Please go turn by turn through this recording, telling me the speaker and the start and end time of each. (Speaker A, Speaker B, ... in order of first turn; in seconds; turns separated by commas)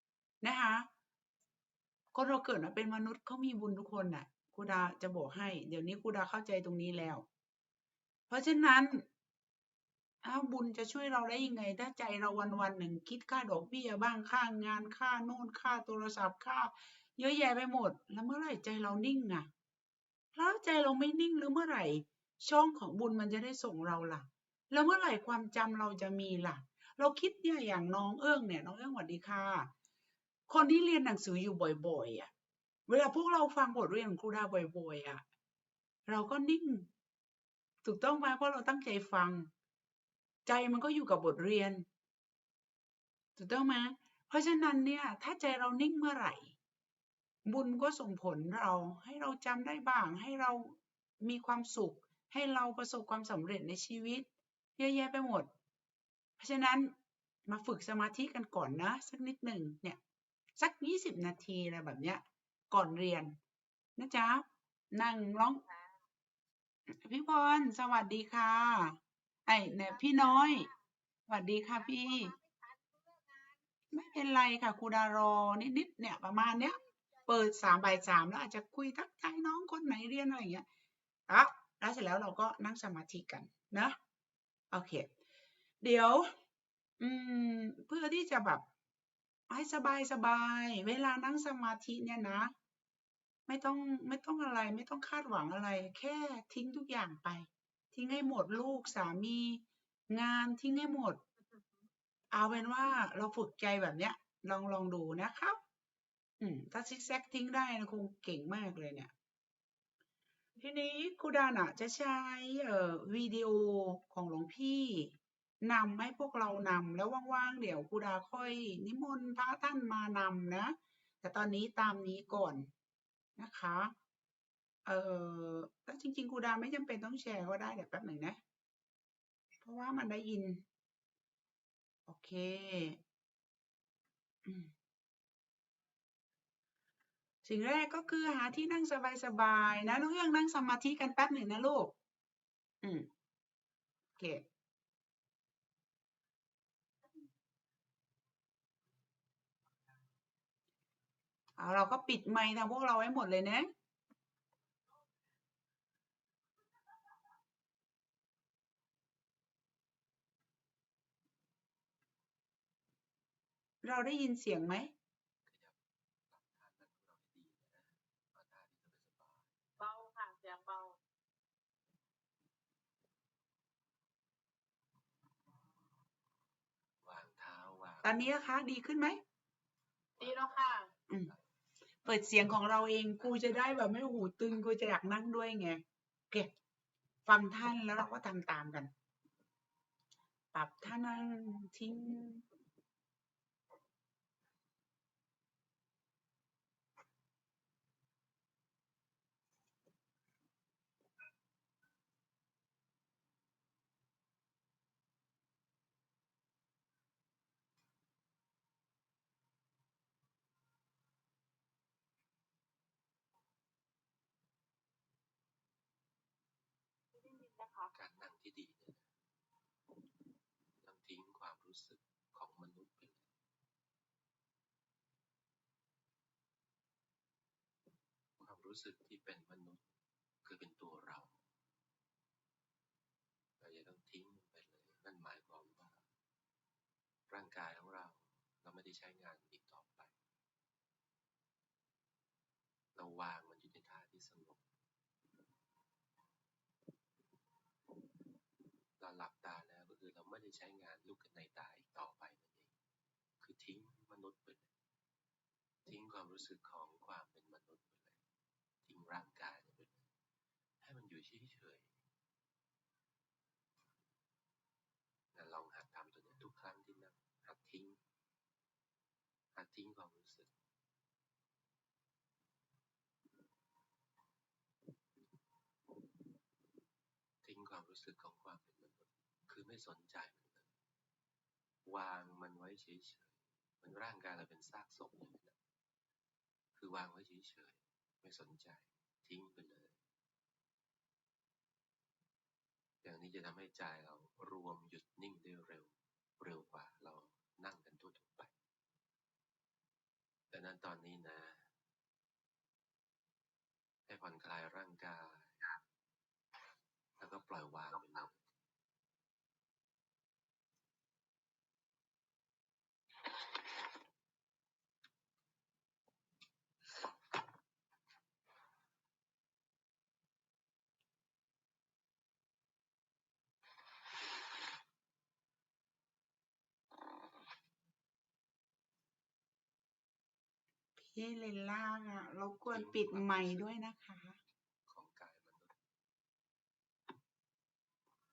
Speaker A: 0.4-0.9, Speaker A: 2.1-7.3, Speaker A: 8.3-9.1, Speaker A: 10.2-19.5, Speaker A: 20.3-29.7, Speaker A: 30.5-32.3, Speaker A: 32.9-35.2, Speaker A: 36.1-36.9, Speaker A: 37.8-39.5, Speaker A: 40.4-41.9, Speaker A: 43.4-46.5, Speaker A: 47.4-55.5, Speaker A: 56.4-60.0, Speaker A: 60.6-63.4, Speaker A: 64.0-65.6, Speaker A: 66.9-70.7, Speaker B: 70.0-70.7, Speaker A: 71.3-72.3, Speaker B: 71.7-73.6, Speaker A: 73.9-80.7, Speaker A: 81.3-84.0, Speaker A: 84.7-85.1, Speaker A: 85.8-86.3, Speaker A: 87.0-88.6, Speaker A: 89.5-92.5, Speaker A: 93.5-101.2, Speaker A: 102.3-105.6, Speaker A: 106.4-109.1, Speaker A: 110.6-122.7, Speaker A: 123.4-123.9, Speaker A: 124.8-128.4, Speaker A: 129.6-130.6, Speaker A: 132.1-133.0, Speaker A: 134.4-134.7, Speaker A: 137.4-141.9, Speaker A: 142.8-143.1, Speaker A: 144.2-144.4, Speaker A: 151.6-153.7, Speaker A: 163.8-164.9, Speaker C: 165.4-165.8, Speaker C: 166.3-169.5, Speaker B: 169.8-171.0, Speaker C: 177.0-178.3, Speaker A: 178.0-179.2, Speaker B: 180.2-180.9, Speaker C: 180.2-181.4, Speaker A: 182.0-186.5, Speaker A: 187.2-188.9, Speaker A: 190.5-192.4, Speaker B: 217.2-217.9, Speaker C: 217.9-219.1, Speaker C: 220.8-223.3, Speaker C: 228.4-229.8, Speaker C: 230.4-231.3, Speaker C: 233.6-236.0, Speaker C: 237.3-240.1, Speaker C: 242.9-244.6, Speaker C: 249.0-252.7, Speaker C: 253.4-254.7, Speaker C: 255.8-258.2, Speaker C: 258.8-260.1, Speaker C: 260.8-261.9, Speaker C: 265.3-268.0, Speaker C: 269.5-270.5, Speaker C: 277.4-280.7, Speaker C: 281.8-285.5, Speaker C: 286.7-289.9, Speaker C: 293.0-298.5, Speaker C: 300.5-301.7, Speaker C: 304.1-305.8, Speaker C: 307.2-308.4, Speaker A: 331.0-334.4, Speaker C: 332.6-333.7, Speaker C: 334.9-335.7